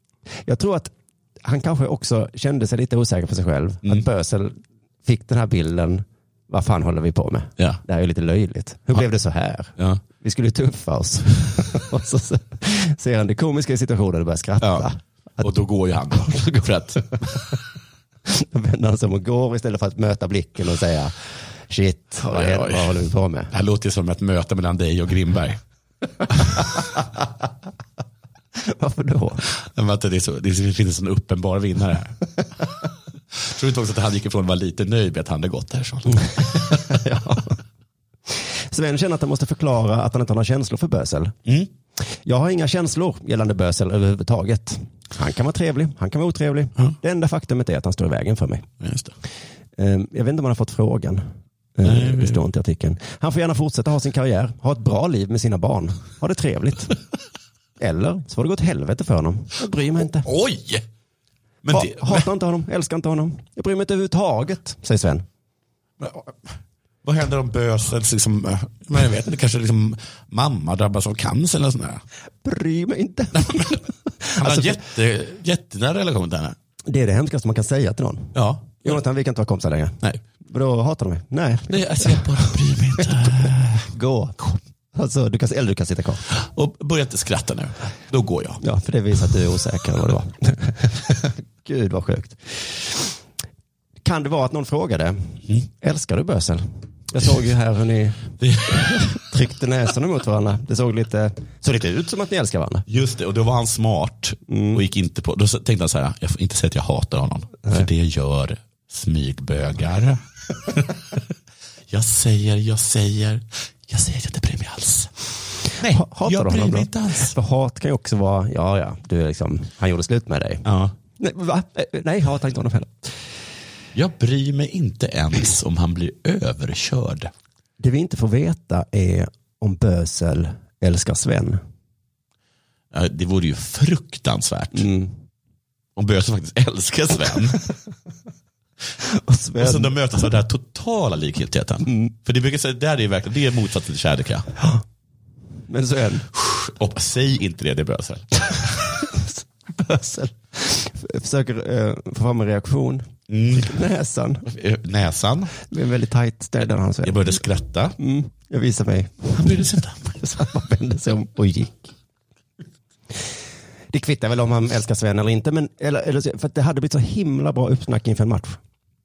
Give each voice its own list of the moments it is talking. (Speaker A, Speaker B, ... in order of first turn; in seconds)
Speaker A: 0.3-15.5, 16.2-17.6, 18.2-23.5, 28.6-29.5, 36.4-37.6, 38.3-41.3, 42.1-48.7, 49.8-57.0, 57.8-60.3, 61.7-65.2, 72.4-74.8, 76.9-84.4, 84.9-86.3, 88.6-93.2, 94.0-102.9, 104.5-104.8, 115.9-120.7, 121.2-123.2, 127.8-131.6, 134.7-135.1, 139.0-139.9, 141.8-142.1, 145.7-146.3, 148.9-154.5, 155.6-157.4, 158.0-161.9, 163.9-168.6
Speaker B: 14.6-14.9, 15.4-17.1, 22.3-25.6, 26.3-26.5, 29.5-32.2, 33.3-37.0, 48.8-49.1, 51.8-52.4, 60.2-60.8, 61.6-62.3, 66.0-72.0, 74.4-76.5, 78.3-79.0, 81.7-83.8, 86.3-88.6, 98.4-99.2, 102.9-111.2, 111.9-117.3, 120.6-120.9, 123.9-127.3, 132.9-134.9, 135.9-137.6, 139.6-144.5, 146.3-149.0, 153.3-153.8, 154.4-155.5, 157.0-157.9, 159.4-160.1